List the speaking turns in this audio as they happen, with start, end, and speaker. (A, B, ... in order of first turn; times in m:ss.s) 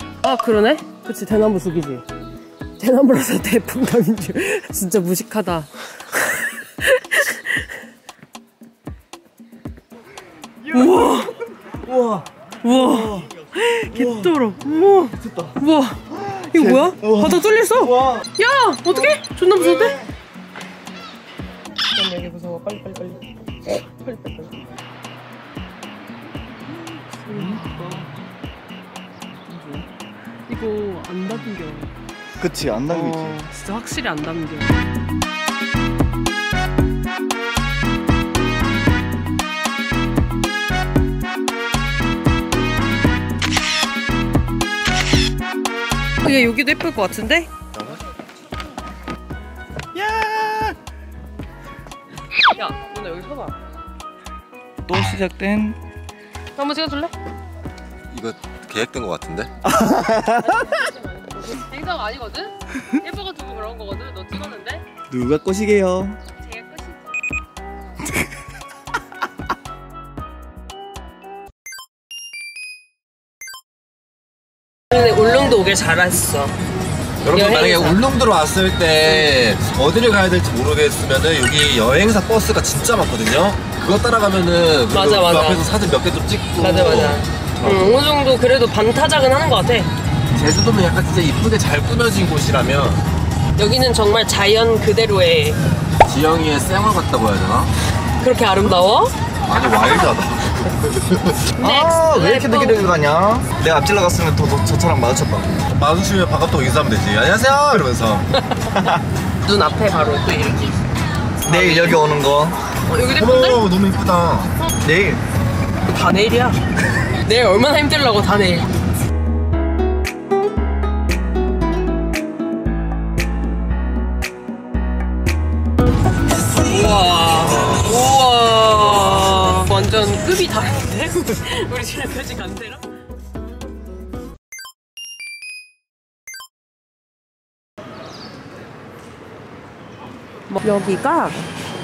0:00.2-0:02.0 A
0:02.8-0:07.7 A
0:10.7-0:11.4 A
0:11.8-0:13.3 B
0:12.6-0:14.7 A
0:13.9-0:15.5 B
0:15.6-0:20.0 A
0:16.3-0:18.2 B
0:21.9-0:24.6 A
0:27.1-0:28.1 A
0:27.3-0:28.1 B
0:29.5-0:29.8 B
0:30.5-0:31.9 A
0:32.4-0:33.4 B
0:32.9-0:34.7 A
0:46.2-0:47.5 A
0:50.0-0:50.8 B
0:52.5-0:53.6 A
0:54.9-0:55.8 B
0:56.6-0:57.1 A
0:58.1-0:59.5 C
0:59.7-1:00.5 B
1:00.4-1:04.8 A
1:05.1-1:06.2 B
1:06.4-1:07.0 A
1:14.9-1:16.6 A
1:17.2-1:28.0 C
1:17.3-1:18.0 A
1:24.9-1:25.7 A
1:26.6-1:29.9 A
1:30.4-1:33.0 C
1:33.6-1:35.6 A
1:36.0-1:37.7 C
1:38.2-1:39.1 A
1:39.5-1:41.5 C
1:41.6-1:42.9 A
1:41.6-1:45.6 B
1:45.7-1:48.3 C
1:48.5-1:48.9 A
1:49.4-1:50.8 A
1:51.4-1:52.0 A
1:51.5-1:52.6 B
1:52.9-1:53.6 A
1:53.1-1:54.5 C
1:54.8-1:55.2 B
1:55.9-1:56.6 A
1:57.2-1:58.7 A
2:06.6-2:12.9 A
2:20.5-2:21.4 A